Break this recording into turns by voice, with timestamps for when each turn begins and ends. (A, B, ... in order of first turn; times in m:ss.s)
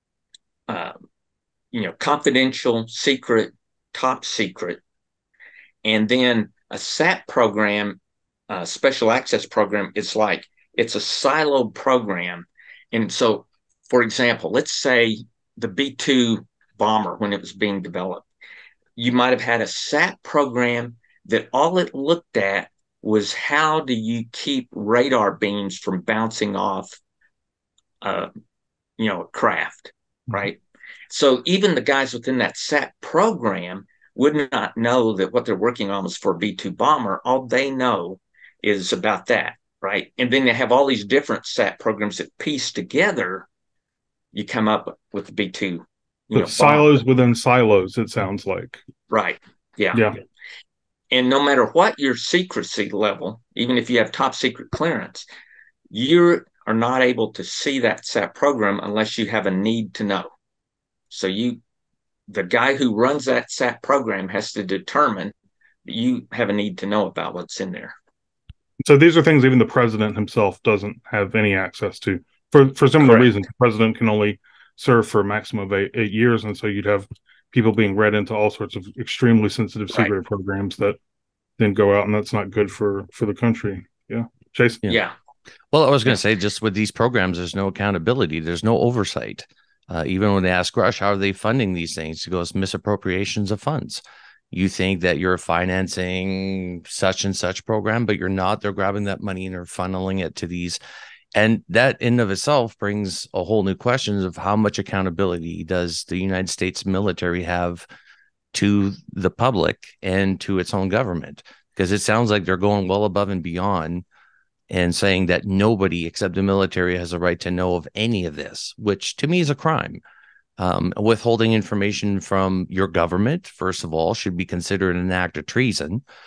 0:00.7-0:01.0 A
0:01.7-0:04.8 A
0:05.8-0:08.0 A
0:08.5-0:18.3 A
0:19.0-0:27.0 A
0:28.0-0:28.3 A
0:29.0-0:43.5 A
0:44.3-0:47.0 A
0:46.3-0:48.8 B
0:49.1-0:50.1 A
0:51.1-0:55.3 A
0:55.9-1:00.3 A
1:01.1-1:01.6 A
1:02.3-1:05.3 A
1:05.8-1:08.0 A
1:08.8-1:21.0 B
1:13.0-1:13.3 A
1:21.6-1:24.8 B
1:24.8-1:25.2 A
1:25.7-1:40.8 C
1:41.4-1:47.9 C
1:48.5-1:54.0 C
1:54.7-2:00.0 C
2:00.6-2:06.0 C